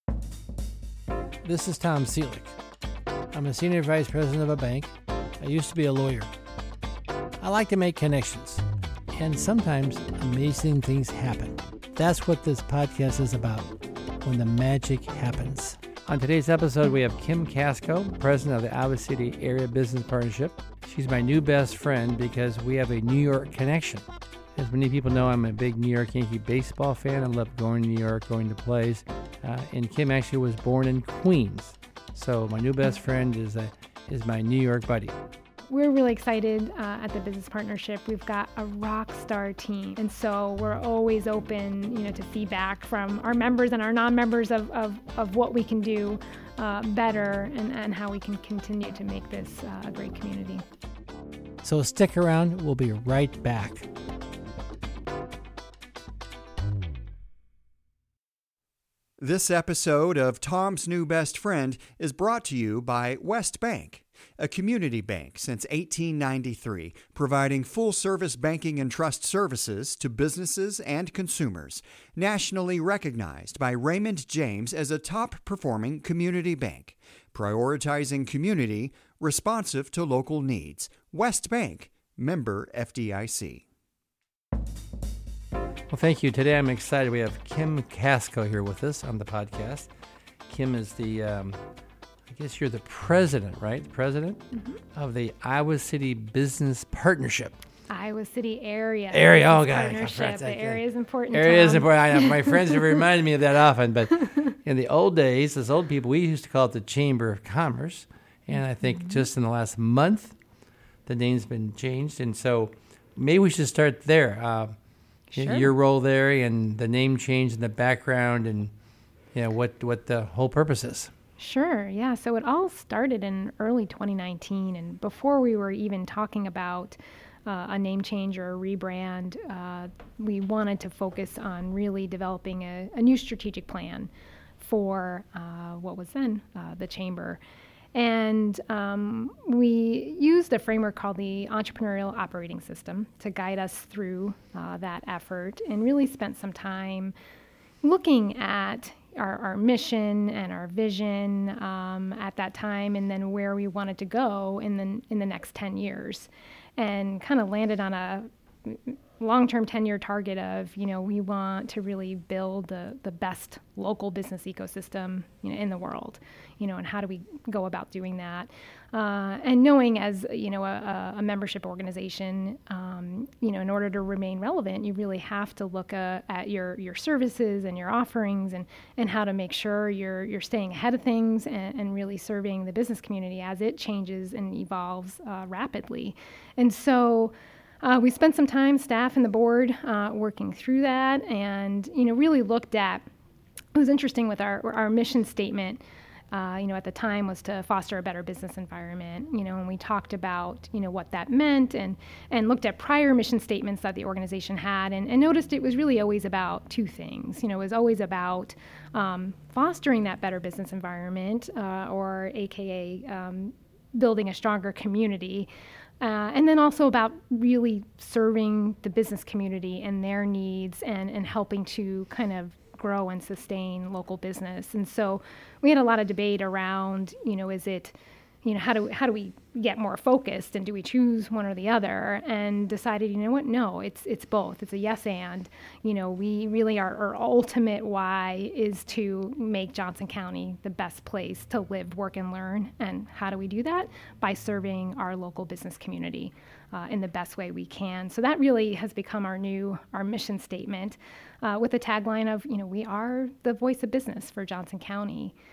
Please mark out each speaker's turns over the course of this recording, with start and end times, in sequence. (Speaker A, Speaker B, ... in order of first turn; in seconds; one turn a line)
Speaker A: 1.4-2.5
Speaker A: 3.3-6.3
Speaker A: 7.4-35.1
Speaker B: 35.7-50.6
Speaker A: 51.6-53.9
Speaker C: 59.2-83.7
Speaker A: 85.9-89.9
Speaker A: 90.5-91.6
Speaker A: 92.2-97.5
Speaker B: 94.5-94.8
Speaker B: 97.9-103.0
Speaker A: 99.1-110.3
Speaker A: 111.0-114.8
Speaker B: 115.3-115.7
Speaker A: 115.4-118.7
Speaker A: 119.3-121.1
Speaker B: 121.4-137.4
Speaker B: 137.9-147.1
Speaker B: 147.8-193.1
Speaker B: 193.8-215.5
Speaker B: 216.0-255.3